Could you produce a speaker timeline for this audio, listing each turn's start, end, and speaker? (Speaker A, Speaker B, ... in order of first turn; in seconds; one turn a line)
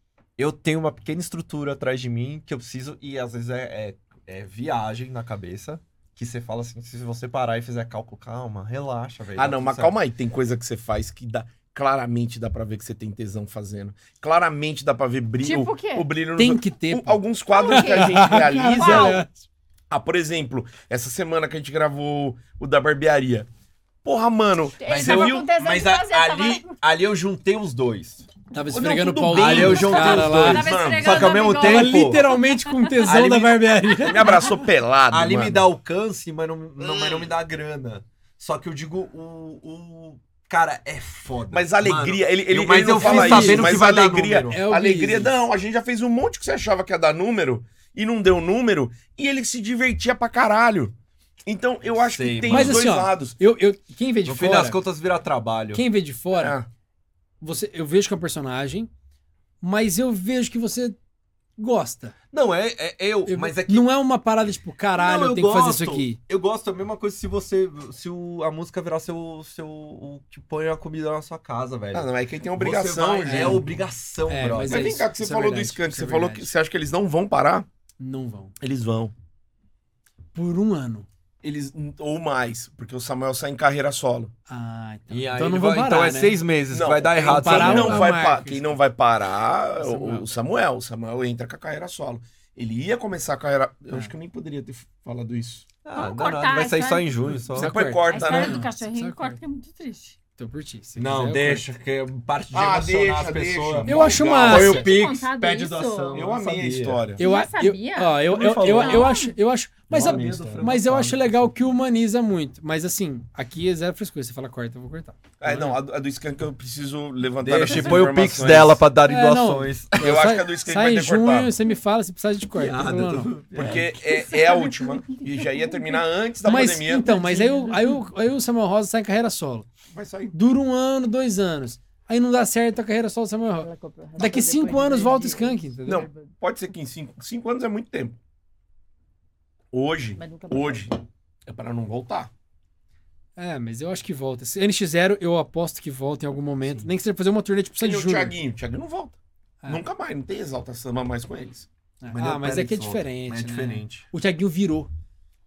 Speaker A: 0.4-9.9
Speaker B: 9.4-19.2
Speaker C: 15.4-16.1
Speaker D: 16.4-19.3
Speaker C: 17.5-19.2
Speaker B: 19.9-23.5
Speaker B: 24.0-25.5
Speaker C: 24.8-26.8
Speaker A: 24.9-28.3
Speaker D: 28.5-30.8
Speaker B: 28.7-31.4
Speaker A: 29.3-32.2
Speaker C: 30.4-33.0
Speaker D: 31.5-34.6
Speaker A: 33.1-33.6
Speaker B: 34.0-35.6
Speaker A: 35.1-44.6
Speaker B: 36.8-37.3
Speaker B: 41.5-50.9
Speaker D: 43.0-43.9
Speaker D: 44.5-45.3
Speaker B: 51.5-53.4
Speaker A: 52.0-52.9
Speaker D: 52.5-54.8
Speaker A: 54.2-55.8
Speaker D: 55.7-56.6
Speaker B: 56.4-56.7
Speaker D: 57.4-58.9
Speaker D: 59.6-61.0
Speaker D: 61.6-62.1
Speaker A: 62.3-63.9
Speaker D: 63.3-66.2
Speaker A: 65.0-75.0
Speaker B: 71.9-73.7
Speaker D: 73.2-73.7
Speaker D: 74.3-76.5
Speaker B: 74.7-77.7
Speaker D: 78.0-78.5
Speaker B: 78.6-79.1
Speaker D: 80.3-81.1
Speaker B: 81.4-84.3
Speaker D: 84.5-86.4
Speaker A: 85.1-88.1
Speaker B: 86.7-95.7
Speaker D: 87.2-88.8
Speaker D: 89.8-90.3
Speaker A: 95.8-97.7
Speaker C: 96.0-97.1
Speaker D: 97.5-99.4
Speaker B: 97.5-98.7
Speaker C: 98.1-100.2
Speaker D: 100.4-101.7
Speaker A: 101.0-107.0
Speaker B: 102.5-104.9
Speaker D: 103.9-104.8
Speaker C: 104.5-106.2
Speaker B: 106.1-107.2
Speaker C: 107.2-109.3
Speaker D: 107.2-115.7
Speaker A: 108.3-109.1
Speaker A: 109.9-111.5
Speaker B: 109.9-110.7
Speaker B: 115.4-118.8
Speaker A: 115.5-115.7
Speaker A: 117.4-120.2
Speaker D: 119.1-123.8
Speaker B: 120.0-121.5
Speaker A: 122.5-124.0
Speaker B: 123.5-127.2
Speaker C: 124.1-126.0
Speaker D: 126.4-129.7
Speaker C: 127.0-128.0
Speaker B: 129.9-130.3
Speaker D: 130.3-136.1
Speaker C: 133.6-136.3
Speaker B: 135.9-138.2
Speaker B: 139.7-142.3
Speaker C: 140.2-140.9
Speaker D: 143.4-148.4
Speaker B: 147.8-151.7
Speaker D: 152.0-154.9
Speaker A: 152.1-154.1